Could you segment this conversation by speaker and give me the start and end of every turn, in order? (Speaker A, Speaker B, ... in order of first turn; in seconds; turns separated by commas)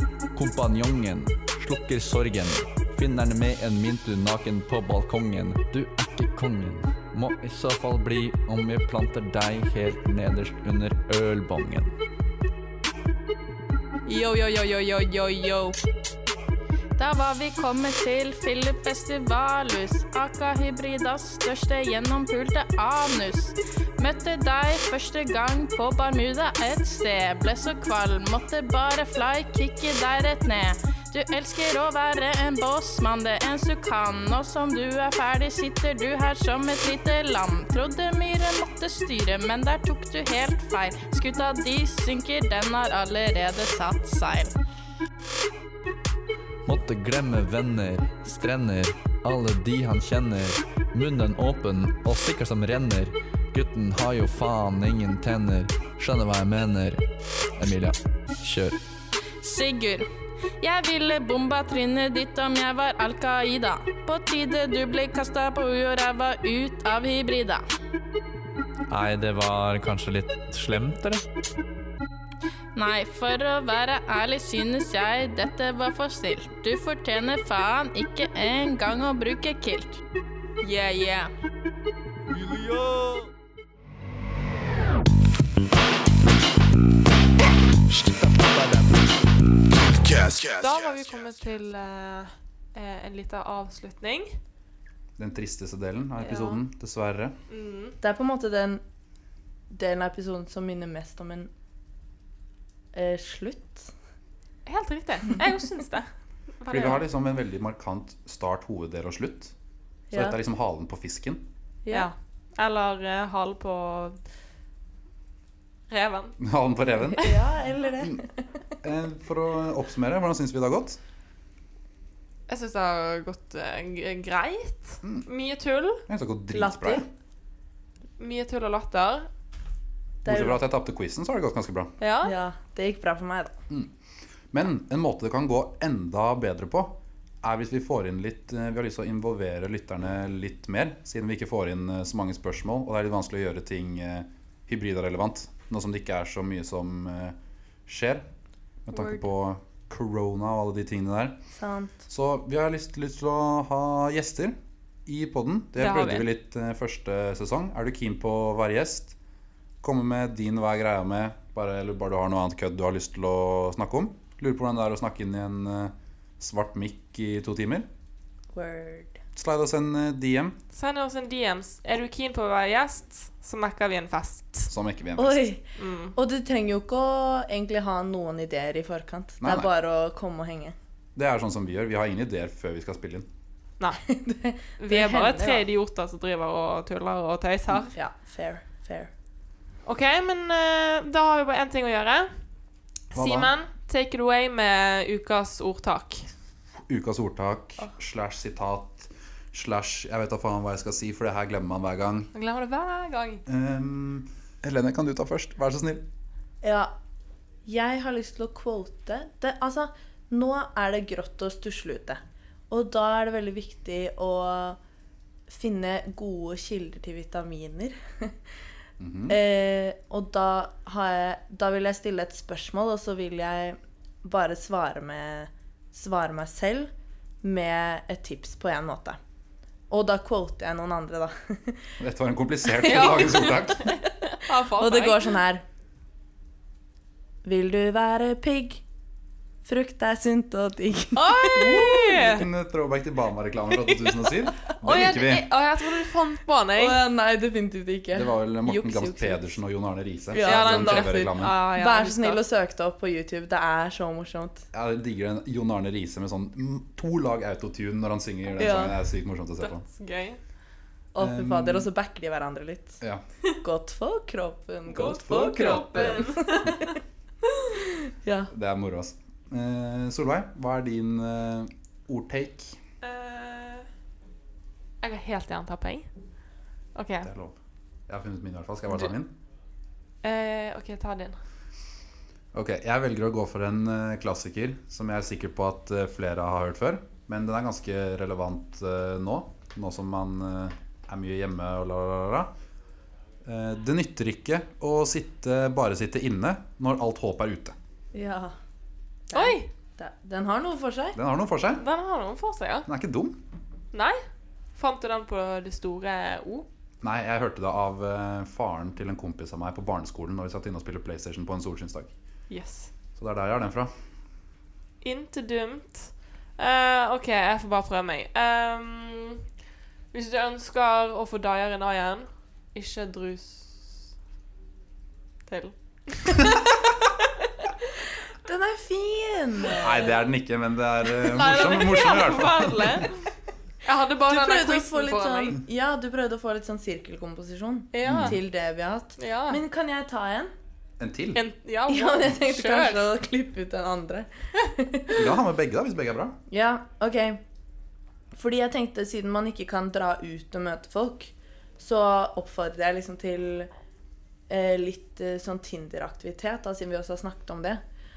Speaker A: 0.3-11.9, Speaker B: 14.1-15.8, Speaker B: 16.9-44.5, Speaker A: 46.6-57.0, Speaker A: 57.6-58.8, Speaker B: 59.4-60.1, Speaker B: 60.6-67.6, Speaker A: 68.9-71.2, Speaker B: 72.7-80.0, Speaker B: 80.6-81.3, Speaker C: 82.3-83.3, Speaker C: 87.9-91.3, Speaker D: 90.6-94.3, Speaker E: 95.2-97.3, Speaker D: 96.2-96.6, Speaker D: 97.5-98.0, Speaker F: 98.0-98.8, Speaker F: 99.7-101.5, Speaker F: 102.9-103.9, Speaker D: 104.7-106.1, Speaker D: 106.6-107.0, Speaker E: 106.7-109.5, Speaker F: 110.1-110.4, Speaker E: 110.1-111.5, Speaker F: 111.8-112.1, Speaker D: 111.9-114.2, Speaker D: 115.9-116.4, Speaker E: 116.4-117.3, Speaker F: 117.1-118.3, Speaker E: 118.8-121.0, Speaker D: 122.5-126.0, Speaker E: 126.1-127.0, Speaker F: 126.5-127.0, Speaker D: 128.2-129.3, Speaker F: 130.2-130.6, Speaker E: 130.2-131.9, Speaker D: 132.0-132.3, Speaker F: 132.2-133.6, Speaker E: 134.5-147.3, Speaker E: 147.9-148.2, Speaker E: 148.9-151.4, Speaker F: 151.5-152.0, Speaker E: 152.1-159.1, Speaker D: 155.8-156.3, Speaker E: 159.8-167.9, Speaker F: 168.5-169.2, Speaker E: 169.3-170.6, Speaker D: 170.7-174.7, Speaker E: 174.7-175.5, Speaker F: 175.2-180.7, Speaker D: 175.8-176.2, Speaker E: 179.4-179.7, Speaker E: 181.1-183.3, Speaker F: 184.1-185.7, Speaker D: 184.8-187.9, Speaker F: 187.9-189.1, Speaker D: 189.8-192.3, Speaker D: 193.1-196.3, Speaker E: 193.1-193.5, Speaker E: 196.9-202.3, Speaker D: 202.3-203.4, Speaker E: 203.4-206.1, Speaker F: 206.6-206.9, Speaker F: 207.7-214.8, Speaker F: 215.5-218.3, Speaker E: 219.0-219.4, Speaker F: 219.3-226.9, Speaker F: 227.4-229.2, Speaker F: 229.9-231.8, Speaker E: 232.0-233.9, Speaker D: 232.7-235.3, Speaker F: 234.8-235.6, Speaker F: 237.4-238.8, Speaker F: 239.6-241.8, Speaker D: 241.1-242.5, Speaker E: 241.5-245.5, Speaker D: 244.8-247.0, Speaker F: 246.8-249.5, Speaker E: 248.1-251.6, Speaker F: 250.3-254.6, Speaker D: 250.4-252.4, Speaker E: 254.7-259.8, Speaker F: 258.6-258.9, Speaker D: 259.6-260.4, Speaker F: 261.1-263.0, Speaker E: 261.2-261.9, Speaker F: 263.6-266.8, Speaker D: 264.9-267.0, Speaker E: 264.9-266.3, Speaker F: 268.2-268.5, Speaker E: 268.5-272.8, Speaker D: 273.0-273.9, Speaker D: 275.0-276.1, Speaker D: 276.9-277.3, Speaker E: 277.2-277.6, Speaker E: 278.1-279.3, Speaker D: 280.2-281.4, Speaker E: 282.5-292.5, Speaker E: 293.4-297.8, Speaker F: 298.1-298.5, Speaker F: 299.3-301.2, Speaker D: 299.3-299.7, Speaker E: 301.1-301.8, Speaker D: 301.8-302.9, Speaker E: 302.9-303.4, Speaker D: 303.9-304.2, Speaker D: 304.8-306.7, Speaker E: 307.0-312.1, Speaker D: 312.5-312.9, Speaker E: 313.1-313.9, Speaker D: 315.0-319.4, Speaker D: 320.1-323.9, Speaker D: 325.5-326.5, Speaker F: 328.4-330.2, Speaker E: 329.8-333.1, Speaker D: 331.2-333.2, Speaker D: 333.8-335.6, Speaker F: 334.3-340.5, Speaker D: 337.9-338.4, Speaker E: 338.0-338.4, Speaker D: 339.2-339.6, Speaker E: 341.0-341.4, Speaker D: 341.3-343.0, Speaker F: 341.9-345.3, Speaker E: 345.1-346.4, Speaker F: 346.5-347.4, Speaker F: 348.3-353.7, Speaker F: 354.5-357.8